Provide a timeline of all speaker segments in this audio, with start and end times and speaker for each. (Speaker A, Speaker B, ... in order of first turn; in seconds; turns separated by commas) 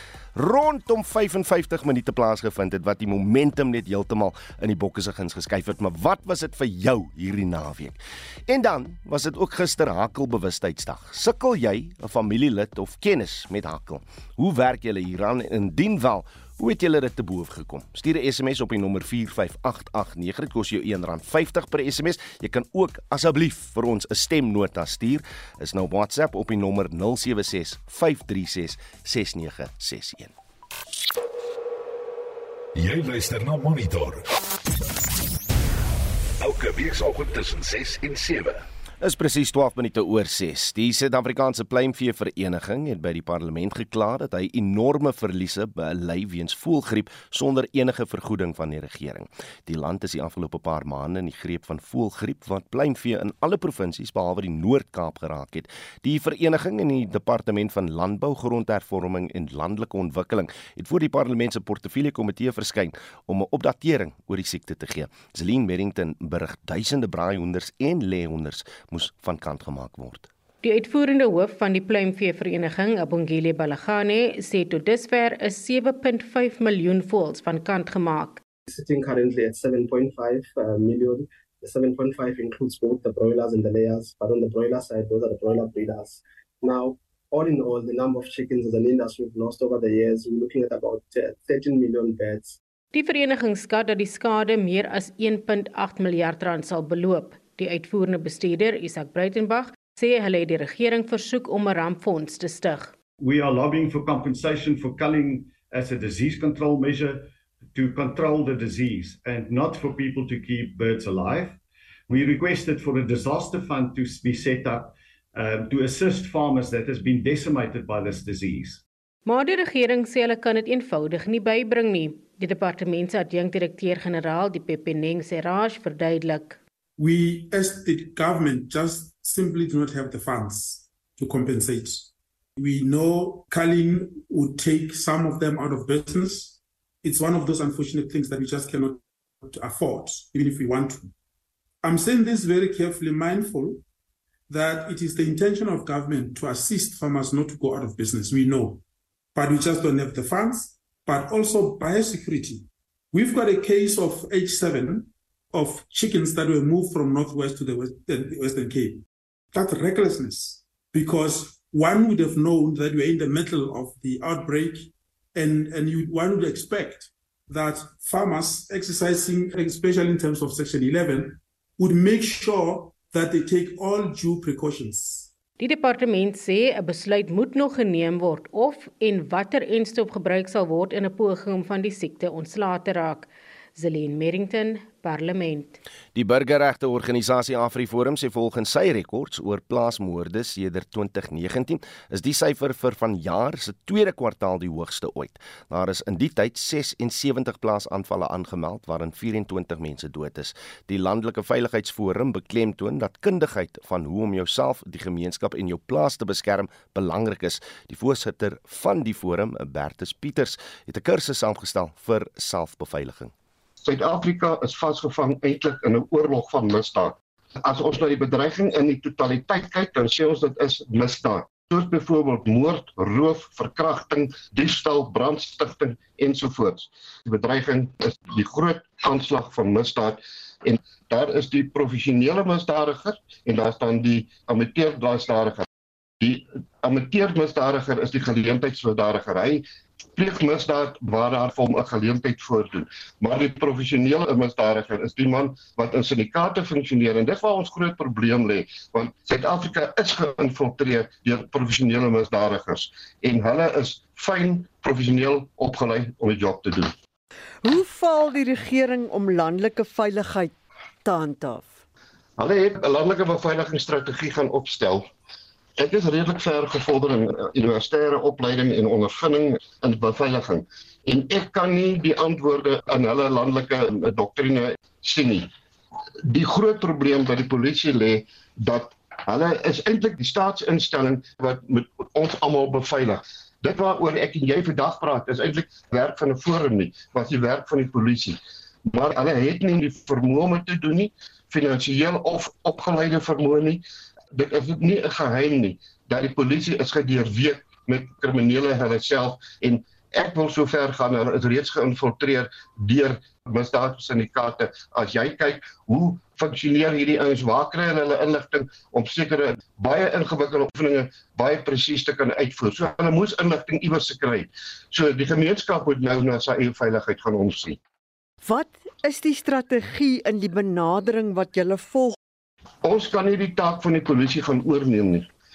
Speaker A: 0.3-30.3, Speaker B: 32.7-34.2, Speaker B: 36.4-38.6, Speaker A: 39.0-70.3, Speaker C: 70.6-78.4, Speaker D: 78.7-92.6, Speaker C: 92.9-102.9, Speaker E: 103.2-118.8, Speaker C: 119.2-126.6, Speaker F: 127.0-141.1, Speaker F: 141.8-143.8, Speaker F: 144.5-148.8, Speaker F: 149.3-175.3, Speaker C: 175.6-185.8, Speaker A: 186.1-213.3, Speaker G: 213.8-235.6, Speaker G: 236.2-239.6, Speaker G: 240.2-256.9, Speaker H: 257.6-260.5, Speaker H: 261.0-261.8, Speaker G: 262.4-265.0, Speaker G: 265.8-275.5, Speaker G: 276.2-293.8, Speaker G: 294.3-317.8, Speaker H: 318.4-322.1, Speaker G: 322.8-325.3